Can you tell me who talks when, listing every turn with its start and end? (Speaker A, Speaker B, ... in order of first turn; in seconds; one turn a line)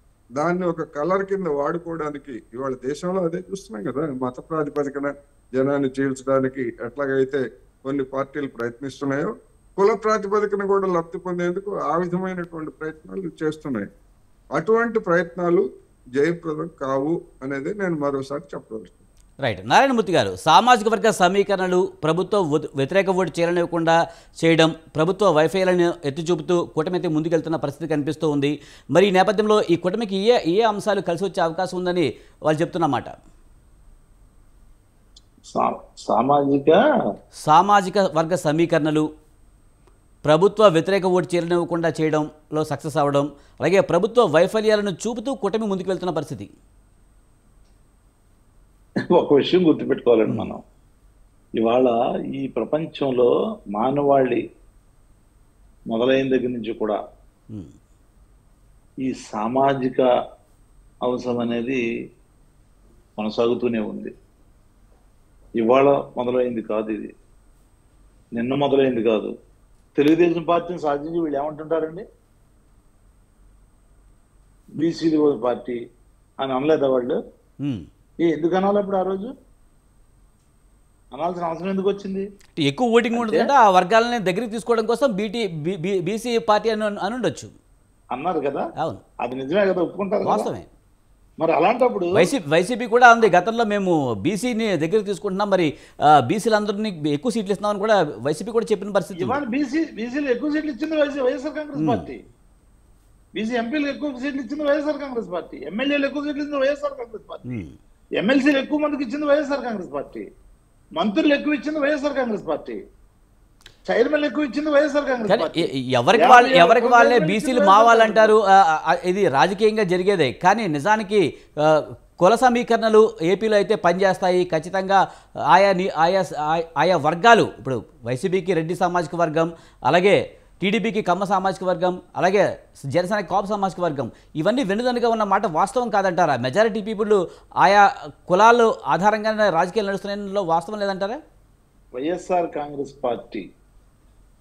Speaker A: 0.4-13.9
Speaker A: 14.6-15.6
Speaker A: 16.2-19.0
Speaker B: 19.4-33.1
Speaker C: 35.5-36.8
Speaker B: 37.4-39.0
Speaker B: 40.2-46.5
Speaker C: 49.1-50.6
Speaker C: 51.6-54.4
Speaker C: 55.9-57.0
Speaker C: 59.0-60.0
Speaker C: 61.0-61.8
Speaker C: 63.2-64.1
Speaker C: 65.6-67.1
Speaker C: 68.3-69.3
Speaker C: 70.0-72.0
Speaker C: 74.8-75.8
Speaker C: 76.4-77.2
Speaker C: 78.2-79.3
Speaker C: 81.1-82.2
Speaker B: 82.6-87.5
Speaker C: 83.1-83.5
Speaker C: 88.1-88.7
Speaker C: 89.2-90.5
Speaker B: 90.2-90.7
Speaker C: 91.4-92.3
Speaker B: 92.1-95.7
Speaker B: 96.3-99.4
Speaker C: 99.2-102.2
Speaker B: 101.8-102.0
Speaker C: 103.4-107.6
Speaker B: 107.5-107.8
Speaker C: 108.2-110.3
Speaker C: 111.0-112.8
Speaker C: 113.9-118.3
Speaker B: 115.3-141.2
Speaker C: 141.9-143.4